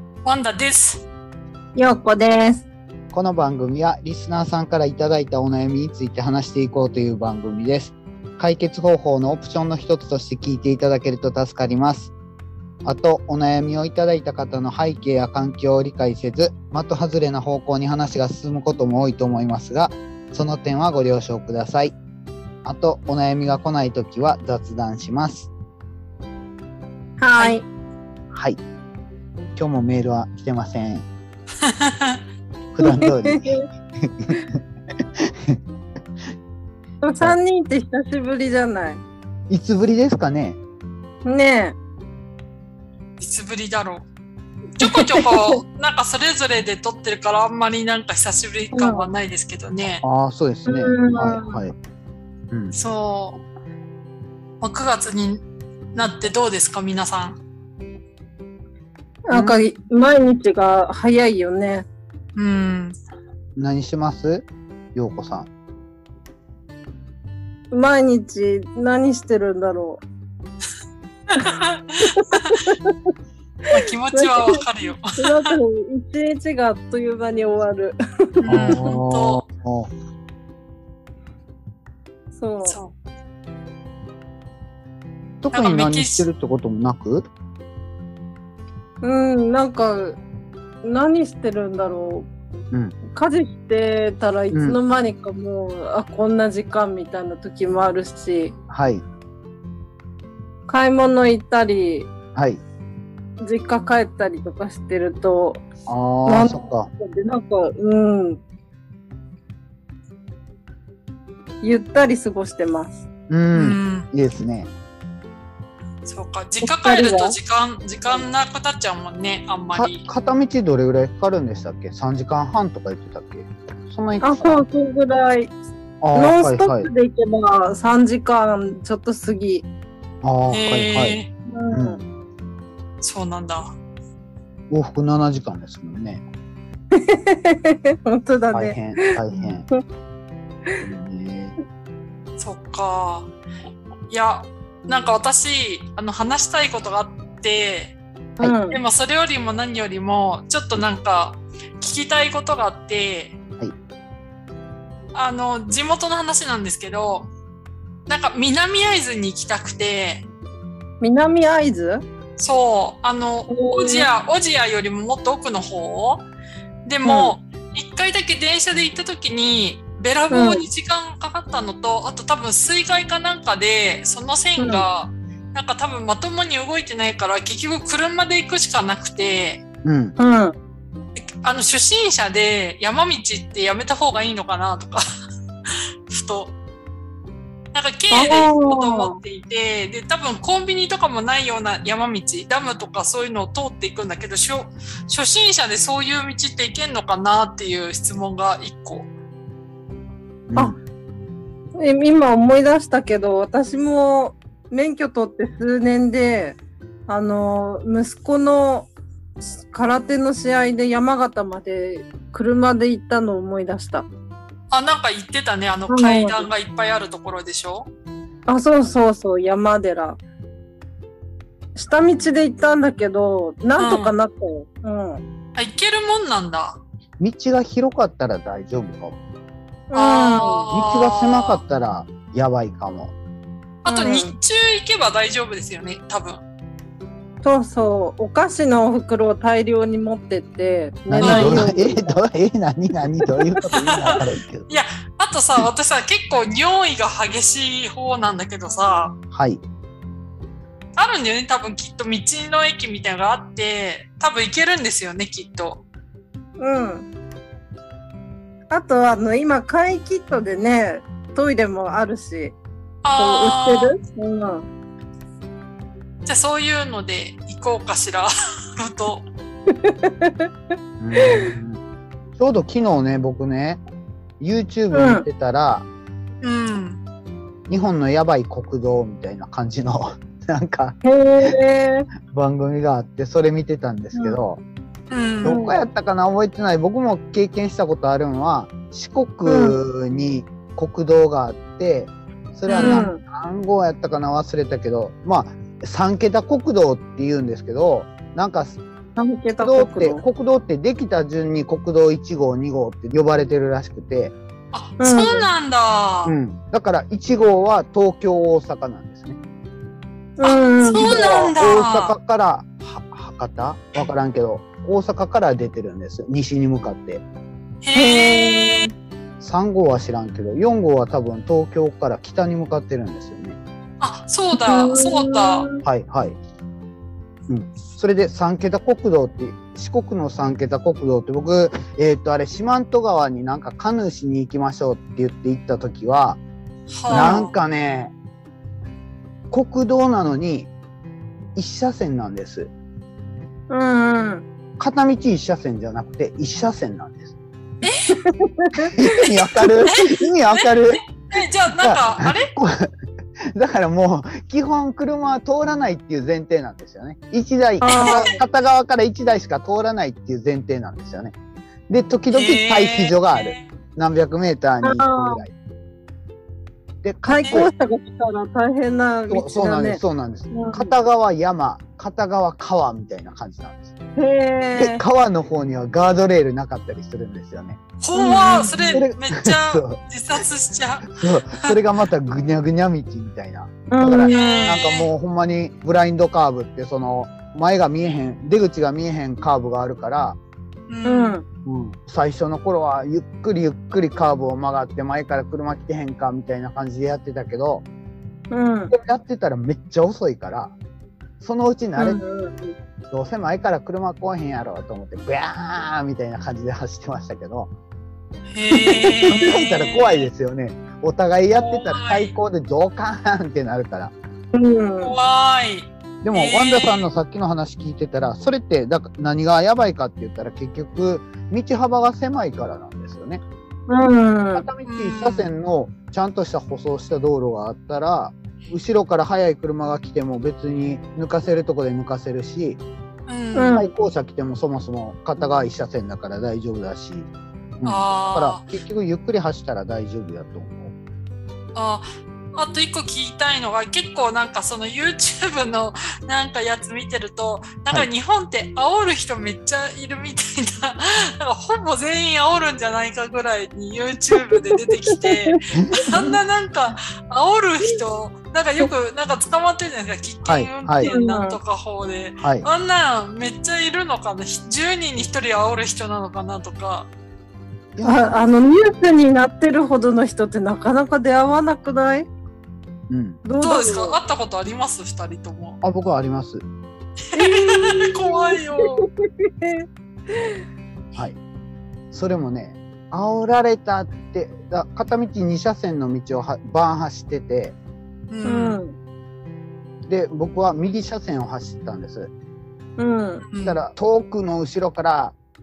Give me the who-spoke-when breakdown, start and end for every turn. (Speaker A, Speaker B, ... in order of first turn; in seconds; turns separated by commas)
Speaker A: 0.2-1.1, Speaker B: 1.8-2.6, Speaker C: 3.1-12.1, Speaker C: 12.8-21.9, Speaker C: 22.6-25.5, Speaker B: 27.2-27.6, Speaker C: 28.3-28.6, Speaker C: 29.6-31.1, Speaker A: 31.6-32.2, Speaker C: 32.7-33.5, Speaker B: 32.8-33.6, Speaker C: 34.0-34.3, Speaker C: 35.2-35.6, Speaker B: 37.0-39.0, Speaker C: 39.5-40.6, Speaker B: 41.2-41.8, Speaker A: 43.2-44.1, Speaker A: 44.8-50.0, Speaker B: 44.8-45.5, Speaker B: 48.7-49.1, Speaker C: 50.0-51.8, Speaker B: 50.7-51.6, Speaker A: 52.7-53.4, Speaker A: 54.6-57.4, Speaker B: 59.3-61.9, Speaker C: 59.3-59.6, Speaker A: 62.4-63.0, Speaker C: 63.6-65.5, Speaker B: 67.7-70.0, Speaker A: 71.4-72.5, Speaker B: 72.5-72.9, Speaker A: 73.7-75.5, Speaker B: 74.1-74.6, Speaker B: 75.2-78.9, Speaker C: 78.5-79.9, Speaker A: 78.5-79.4, Speaker B: 82.4-82.8, Speaker A: 82.7-82.9, Speaker C: 85.4-87.3, Speaker A: 85.5-86.3, Speaker B: 89.0-90.2, Speaker B: 90.8-92.3, Speaker B: 93.1-98.5, Speaker C: 94.5-94.8, Speaker C: 98.7-99.0, Speaker B: 100.7-102.1, Speaker C: 102.3-102.6, Speaker B: 103.4-105.7, Speaker C: 105.9-106.9, Speaker B: 106.3-108.4, Speaker B: 111.6-113.0, Speaker C: 113.3-114.7, Speaker A: 113.5-114.1, Speaker A: 116.0-120.0, Speaker B: 116.6-117.4, Speaker C: 119.7-124.7, Speaker B: 124.2-125.5, Speaker C: 126.0-126.9, Speaker B: 126.2-129.7, Speaker C: 130.2-131.2, Speaker A: 130.5-131.3, Speaker B: 131.5-132.0, Speaker C: 131.7-132.0, Speaker A: 133.0-133.7, Speaker C: 134.7-136.2, Speaker B: 137.0-138.9, Speaker C: 138.5-139.7, Speaker C: 140.8-141.6, Speaker A: 142.4-143.3, Speaker A: 144.1-148.0, Speaker B: 148.4-148.8, Speaker A: 148.7-153.4, Speaker A: 155.1-157.3, Speaker A: 158.1-160.3, Speaker B: 161.0-162.1, Speaker A: 162.4-166.3, Speaker B: 163.5-164.1, Speaker A: 166.8-179.6, Speaker B: 167.0-167.4, Speaker B: 170.3-170.6, Speaker B: 174.6-174.9, Speaker C: 179.8-180.2, Speaker B: 180.2-180.6, Speaker A: 181.4-185.0, Speaker A: 185.7-186.6, Speaker A: 187.7-199.1, Speaker B: 188.1-189.2, Speaker C: 200.5-200.8, Speaker B: 201.8-208.9, Speaker B: 209.6-214.1, Speaker A: 214.7-217.9, Speaker B: 215.9-216.5, Speaker B: 218.5-220.2, Speaker B: 221.8-225.2, Speaker A: 223.8-224.1, Speaker A: 225.6-226.8, Speaker C: 227.2-229.2, Speaker B: 229.9-230.7, Speaker A: 229.9-231.6, Speaker C: 230.7-233.1, Speaker A: 233.8-236.4, Speaker B: 233.9-234.3, Speaker B: 237.4-242.2, Speaker C: 241.1-244.7, Speaker A: 241.2-241.7, Speaker A: 243.7-249.2, Speaker C: 249.3-249.6, Speaker A: 251.0-255.8, Speaker B: 256.6-257.1, Speaker B: 258.7-262.6, Speaker A: 263.0-264.0, Speaker B: 263.2-264.7, Speaker A: 266.2-269.3, Speaker B: 269.8-270.3, Speaker C: 271.0-271.8, Speaker B: 271.2-271.5, Speaker C: 272.4-273.8, Speaker C: 274.4-275.9, Speaker B: 274.9-275.2, Speaker A: 276.4-277.0, Speaker C: 277.7-281.0, Speaker B: 281.1-282.1, Speaker C: 282.3-284.6, Speaker B: 284.1-284.4, Speaker A: 285.1-285.6, Speaker C: 285.4-298.8, Speaker B: 285.4-285.8, Speaker B: 289.5-289.8, Speaker A: 292.7-293.1, Speaker B: 292.8-293.2, Speaker B: 299.2-300.2, Speaker C: 299.6-304.4, Speaker A: 304.7-306.4, Speaker B: 305.0-305.5, Speaker C: 306.2-309.4, Speaker B: 310.4-311.2, Speaker A: 310.4-312.2, Speaker C: 310.9-317.2, Speaker A: 317.8-318.9, Speaker B: 317.9-318.9, Speaker C: 319.4-323.6, Speaker A: 324.0-325.7, Speaker B: 324.6-325.8, Speaker C: 325.8-326.4, Speaker C: 327.5-336.4, Speaker A: 336.9-337.5, Speaker C: 337.1-338.1, Speaker B: 337.1-337.5, Speaker C: 339.5-340.7, Speaker C: 341.6-342.7, Speaker B: 343.7-344.4, Speaker C: 344.8-347.4, Speaker A: 347.8-348.1, Speaker B: 348.2-348.9, Speaker C: 348.9-351.1, Speaker A: 349.8-352.5, Speaker C: 351.8-352.9, Speaker C: 353.6-361.4, Speaker B: 357.8-358.4, Speaker A: 357.9-358.3, Speaker C: 361.9-365.5, Speaker A: 362.3-363.7, Speaker B: 364.8-365.4, Speaker C: 367.0-367.7, Speaker B: 367.2-370.9, Speaker C: 369.3-373.9, Speaker B: 374.2-375.0, Speaker C: 374.8-377.8, Speaker A: 378.0-381.8, Speaker B: 378.1-379.0, Speaker C: 378.9-380.0, Speaker C: 381.2-390.4, Speaker B: 383.9-384.8, Speaker A: 384.3-385.1, Speaker A: 390.9-391.4, Speaker B: 391.1-391.4, Speaker C: 391.6-397.9, Speaker B: 398.5-398.9, Speaker C: 398.9-400.7, Speaker C: 401.4-402.2, Speaker B: 402.0-402.8, Speaker C: 403.1-407.7, Speaker A: 408.5-410.3, Speaker C: 408.9-414.1, Speaker A: 411.5-412.3, Speaker B: 414.5-415.1, Speaker A: 415.0-417.1, Speaker C: 416.2-423.4, Speaker B: 423.9-424.7, Speaker C: 424.5-432.8, Speaker A: 424.9-425.5, Speaker A: 433.3-433.8, Speaker B: 433.6-433.9, Speaker C: 433.6-440.9, Speaker A: 437.9-438.7, Speaker A: 441.8-467.1, Speaker B: 455.1-455.5, Speaker C: 455.7-456.3, Speaker C: 460.4-461.1, Speaker B: 461.0-461.6, Speaker C: 462.4-462.7, Speaker C: 468.0-468.4, Speaker B: 468.0-472.3, Speaker C: 473.1-473.4, Speaker B: 473.4-474.2, Speaker A: 473.6-475.8, Speaker C: 475.8-476.6, Speaker A: 477.3-479.1, Speaker B: 477.4-480.6, Speaker C: 482.1-487.8, Speaker A: 488.3-488.8, Speaker B: 488.4-489.0, Speaker C: 490.1-492.3, Speaker B: 493.0-493.4, Speaker A: 493.4-493.8, Speaker C: 493.6-495.4